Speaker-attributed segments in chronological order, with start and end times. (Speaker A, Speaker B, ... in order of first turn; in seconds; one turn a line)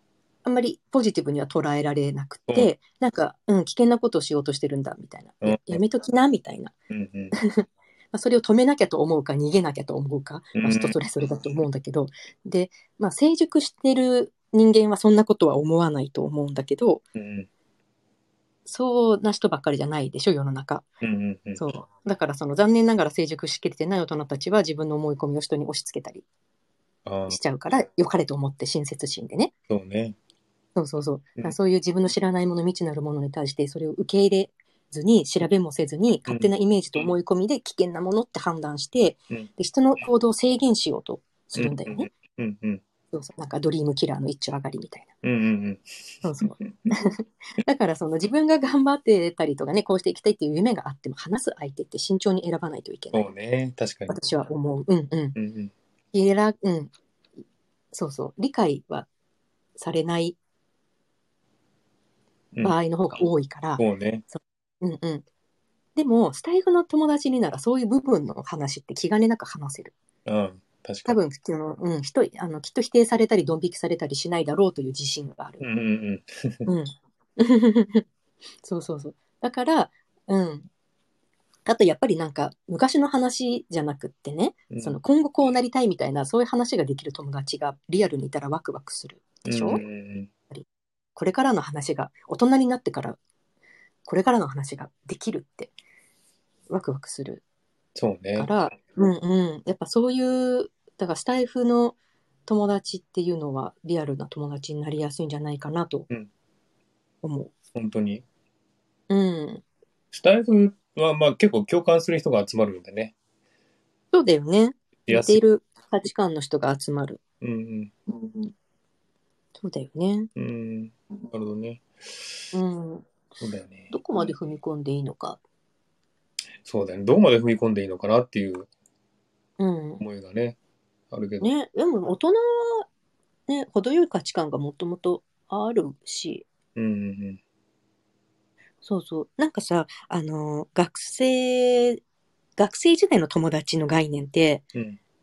Speaker A: 0.5-6.7
Speaker B: 5.4-5.8
Speaker B: 6.9-7.3
Speaker A: 7.3-17.0
Speaker B: 10.6-11.0
Speaker B: 17.1-17.5
Speaker A: 18.7-20.9
Speaker B: 21.0-21.6
Speaker A: 21.6-26.2
Speaker B: 27.1-27.4
Speaker A: 27.3-29.5
Speaker B: 29.7-30.1
Speaker A: 30.8-42.1
Speaker B: 41.6-42.8
Speaker A: 43.1-45.1
Speaker B: 45.2-45.9
Speaker A: 46.2-53.3
Speaker B: 46.4-46.7
Speaker B: 53.1-54.2
Speaker A: 54.1-55.4
Speaker B: 55.4-55.7
Speaker A: 56.1-56.9
Speaker A: 57.9-59.1
Speaker A: 59.8-60.4
Speaker A: 62.6-65.3
Speaker B: 63.8-64.2
Speaker A: 66.0-69.9
Speaker B: 70.3-71.2
Speaker A: 71.1-75.6
Speaker B: 75.6-76.6
Speaker A: 76.7-78.0
Speaker A: 78.6-80.7
Speaker A: 81.7-89.8
Speaker B: 84.7-85.0
Speaker B: 89.5-90.3
Speaker A: 90.5-93.2
Speaker A: 94.0-95.7
Speaker A: 96.7-97.4
Speaker B: 98.0-98.5
Speaker A: 98.3-106.1
Speaker A: 107.2-107.5
Speaker B: 107.7-108.2
Speaker A: 109.1-109.6
Speaker B: 110.1-113.1
Speaker A: 114.1-117.2
Speaker B: 115.1-115.4
Speaker B: 117.4-117.9
Speaker A: 118.2-118.5
Speaker A: 119.6-120.3
Speaker B: 120.4-121.8
Speaker A: 122.5-123.1
Speaker B: 123.4-123.9
Speaker A: 123.9-125.4
Speaker B: 126.6-128.7
Speaker A: 129.6-130.0
Speaker B: 130.0-130.6
Speaker B: 131.1-131.5
Speaker A: 131.4-132.9
Speaker A: 133.5-136.5
Speaker B: 136.8-137.4
Speaker A: 138.8-142.0
Speaker A: 142.6-144.7